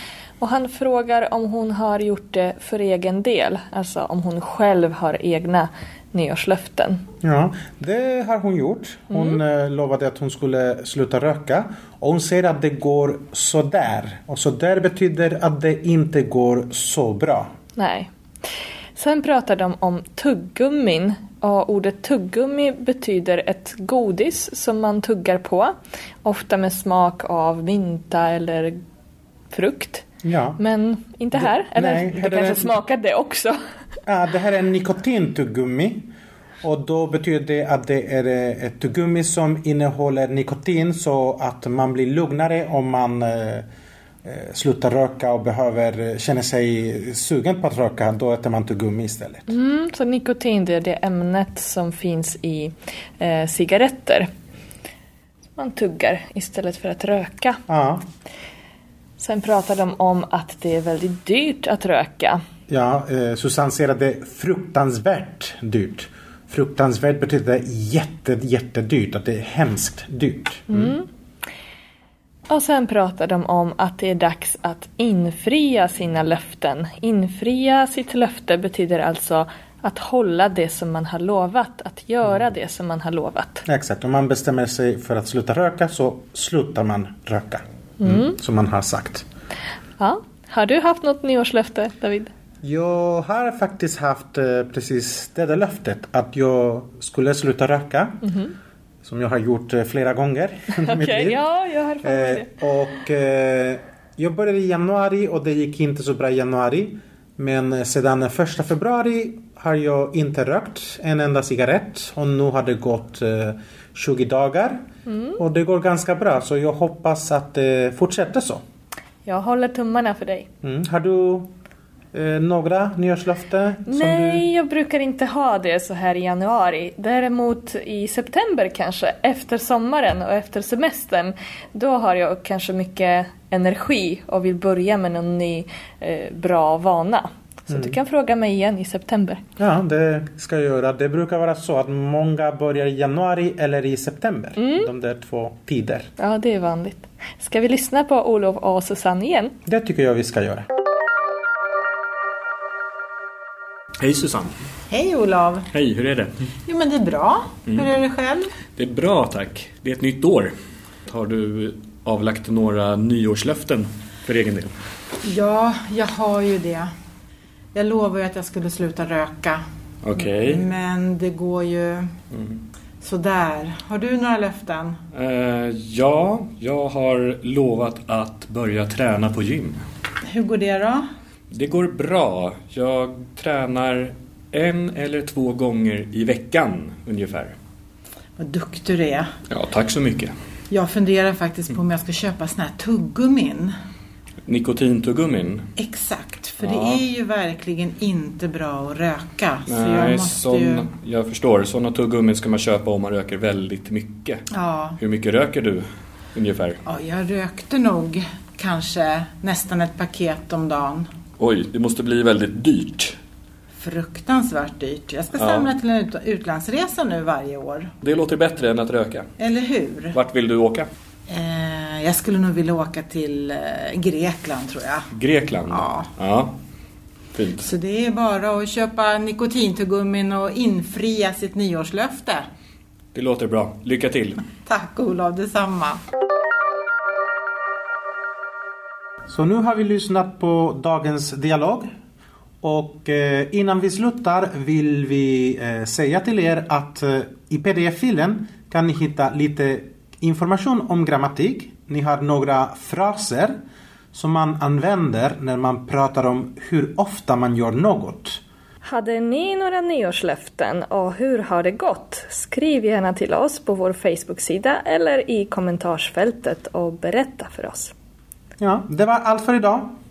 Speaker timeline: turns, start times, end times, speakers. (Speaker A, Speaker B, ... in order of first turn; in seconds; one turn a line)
Speaker A: 0.4-7.0
Speaker B: 7.2-17.5
Speaker A: 9.1-9.4
Speaker A: 17.8-18.1
Speaker A: 18.9-25.7
Speaker A: 26.2-28.8
Speaker A: 29.5-30.1
Speaker B: 30.2-30.6
Speaker A: 30.6-33.6
Speaker B: 31.4-32.8
Speaker B: 34.1-36.1
Speaker B: 36.6-43.6
Speaker B: 44.2-49.5
Speaker A: 49.5-54.3
Speaker A: 55.5-57.6
Speaker B: 57.7-58.0
Speaker A: 59.2-62.4
Speaker B: 62.7-70.9
Speaker A: 70.7-71.0
Speaker A: 72.5-83.6
Speaker B: 83.7-89.2
Speaker A: 88.0-88.3
Speaker A: 90.0-92.3
Speaker B: 92.6-98.3
Speaker B: 99.0-101.4
Speaker A: 100.8-102.5
Speaker B: 102.0-114.8
Speaker A: 115.1-115.4
Speaker B: 115.4-118.6
Speaker A: 119.2-120.5
Speaker B: 120.6-121.5
Speaker B: 122.1-124.4
Speaker A: 123.9-139.4
Speaker B: 137.7-137.9
Speaker B: 139.6-146.1
Speaker A: 144.6-144.8
Speaker A: 146.2-149.5
Speaker B: 149.7-150.7
Speaker C: 154.0-154.6
Speaker D: 154.9-155.7
Speaker C: 155.7-156.3
Speaker D: 156.7-158.5
Speaker C: 158.8-160.5
Speaker C: 161.1-164.7
Speaker D: 165.2-166.9
Speaker D: 167.7-169.6
Speaker C: 170.0-170.6
Speaker D: 170.2-172.1
Speaker C: 172.3-172.6
Speaker D: 173.0-175.0
Speaker C: 175.1-179.8
Speaker D: 180.2-181.0
Speaker C: 181.5-187.6
Speaker D: 188.4-189.3
Speaker C: 189.5-190.3
Speaker D: 190.7-193.7
Speaker C: 194.4-195.7
Speaker D: 195.8-200.9
Speaker C: 196.6-197.0
Speaker C: 199.7-204.4
Speaker D: 204.5-205.0
Speaker C: 205.0-206.8
Speaker D: 206.8-211.1
Speaker C: 211.4-213.2
Speaker D: 213.8-217.9
Speaker C: 215.3-215.7
Speaker C: 218.0-219.3
Speaker D: 219.4-220.2
Speaker C: 220.1-220.9
Speaker D: 221.3-225.1
Speaker C: 225.1-226.5
Speaker D: 225.7-226.1
Speaker C: 227.3-227.7
Speaker D: 227.6-232.4
Speaker C: 233.1-234.4
Speaker D: 234.6-236.0
Speaker B: 239.3-241.9
Speaker B: 242.6-253.6
Speaker B: 254.1-258.4
Speaker A: 258.8-267.9
Speaker B: 268.6-269.9